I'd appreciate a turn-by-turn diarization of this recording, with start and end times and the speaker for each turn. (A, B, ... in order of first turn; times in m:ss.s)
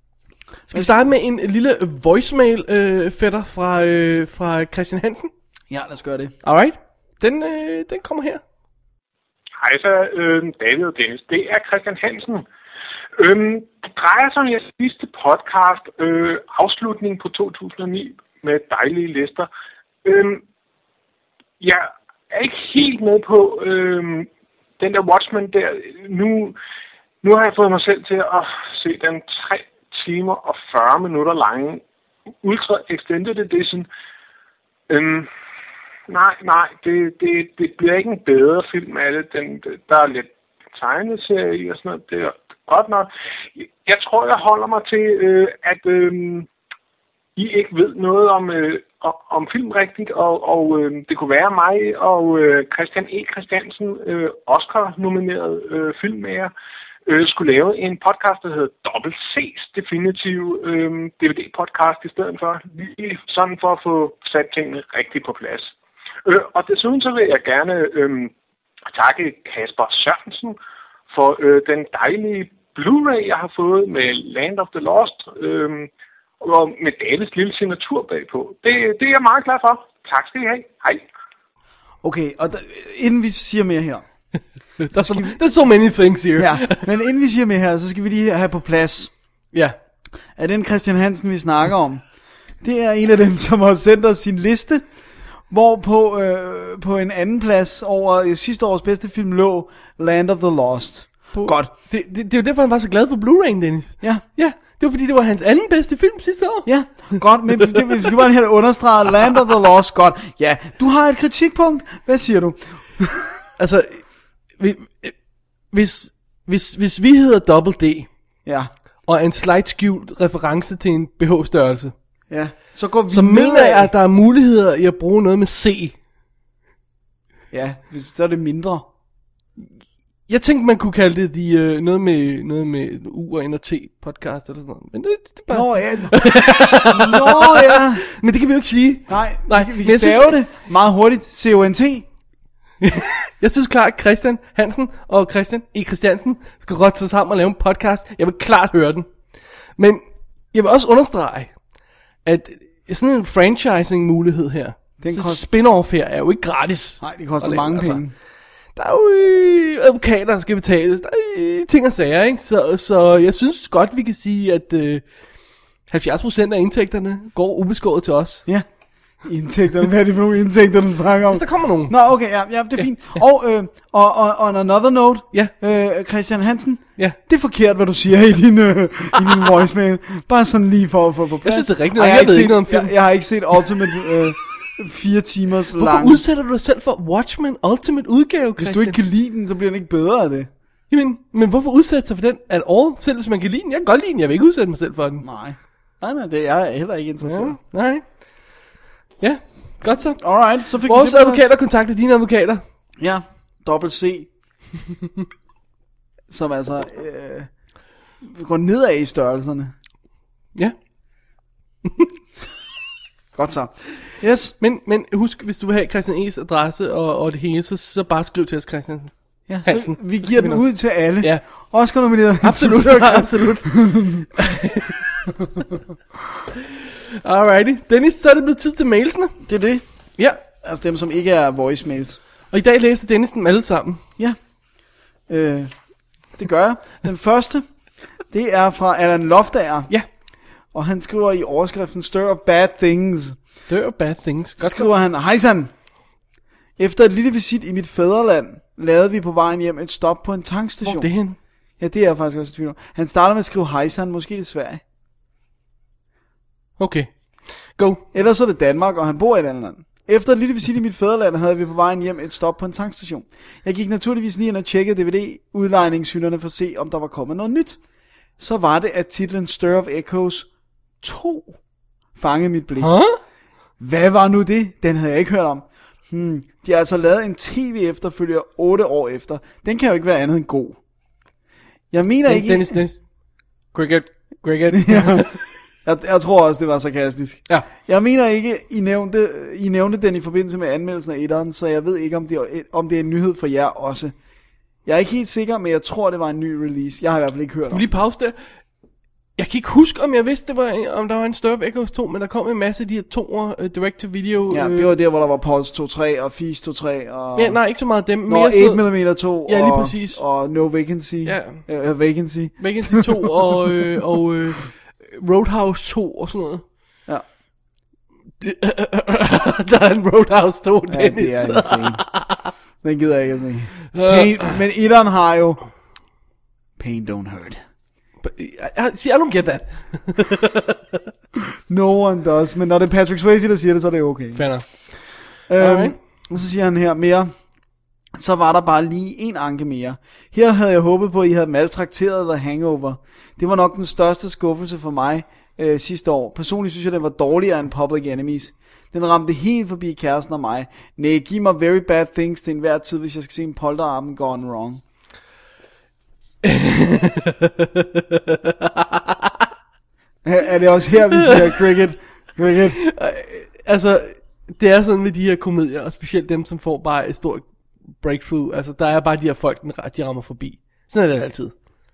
0:00.7-0:05.3 A
0:05.7-0:06.3 B
0:06.4-0:08.4 A
0:09.6-0:12.4 C
0:13.2-0:19.5 C
0:20.0-0:20.4 C
0:21.6-0:24.3 C
0:24.8-0:26.6 C
0:27.2-0:31.8 C
0:32.4-0:33.9 C
0:34.9-0:35.3 C
0:36.1-0:46.5 C
0:47.4-0:56.5 C
0:57.0-1:05.7 C
1:06.2-1:08.3 C
1:08.9-1:10.6 C
1:11.1-1:21.0 C
1:22.0-1:24.0 B
1:24.8-1:26.9 A
1:24.9-1:25.4 B
1:26.4-1:29.1 B
1:30.4-1:32.0 B
1:32.6-1:34.8 B
1:35.5-1:41.7 B
1:41.3-1:47.8 A
1:46.6-1:53.4 B
1:53.6-1:54.0 A
1:54.6-1:55.2 A
1:55.7-1:58.1 A
1:58.4-1:58.7 B
1:59.0-2:01.9 A
2:02.3-2:03.9 B
2:03.1-2:06.0 A
2:07.5-2:08.9 B
2:10.3-2:20.4 A
2:15.5-2:18.0 B
2:19.1-2:22.1 B
2:22.8-2:29.1 A
2:29.8-2:30.0 A
2:30.5-2:31.5 A
2:32.2-2:38.0 A
2:35.0-2:35.4 B
2:37.0-2:38.1 B
2:38.7-2:45.0 A
2:45.9-2:48.4 A
2:49.2-3:06.2 B
2:51.3-2:51.9 A
3:01.4-3:02.9 A
3:05.8-3:09.0 A
3:08.6-3:10.5 B
3:10.9-3:15.2 A
3:15.2-3:17.6 B
3:17.2-3:18.0 A
3:19.2-3:20.2 A
3:20.2-3:21.5 B
3:20.8-3:22.6 A
3:23.0-3:24.3 B
3:26.3-3:27.5 B
3:28.2-3:29.7 B
3:33.3-3:34.5 B
3:34.6-3:39.1 A
3:39.5-3:44.3 B
3:39.6-3:40.6 A
3:42.4-3:45.1 A
3:47.2-3:49.4 A
3:49.4-3:49.8 B
3:50.4-3:52.2 B
3:52.5-3:54.0 A
3:55.3-3:55.8 B
3:56.3-3:57.6 B
3:58.3-3:59.9 B
4:00.7-4:03.4 B
4:03.7-4:04.9 A
4:04.6-4:05.7 B
4:06.8-4:11.1 B
4:10.8-4:11.4 A
4:11.8-4:14.8 B
4:16.8-4:18.0 A
4:18.1-4:27.8 B
4:28.4-4:30.5 B
4:31.0-4:31.6 B
4:32.1-4:32.9 B
4:32.8-4:33.2 A
4:33.8-4:40.8 B
4:41.9-4:42.8 B
4:42.3-4:43.0 A
4:43.7-4:45.4 A
4:44.7-4:45.3 B
4:45.8-4:54.1 B
4:54.8-4:57.9 B
4:57.7-4:58.3 A
4:59.4-5:04.9 A
5:04.5-5:07.6 B
5:07.4-5:08.9 A
5:08.2-5:13.6 B
5:09.4-5:10.2 A
5:11.2-5:11.6 A
5:12.6-5:16.6 A
5:18.4-5:22.5 A
5:20.9-5:22.0 B
5:22.8-5:25.6 B
5:23.9-5:24.6 A
5:26.8-5:27.6 B
5:28.2-5:30.9 A
5:31.7-5:34.5 B
5:34.3-5:34.9 A
5:35.5-5:37.3 B
5:35.6-5:36.0 A
5:38.1-5:54.8 B
5:56.4-5:59.3 A
6:00.2-6:02.8 B
6:01.2-6:01.4 A
6:02.8-6:07.5 A
6:08.0-6:11.5 A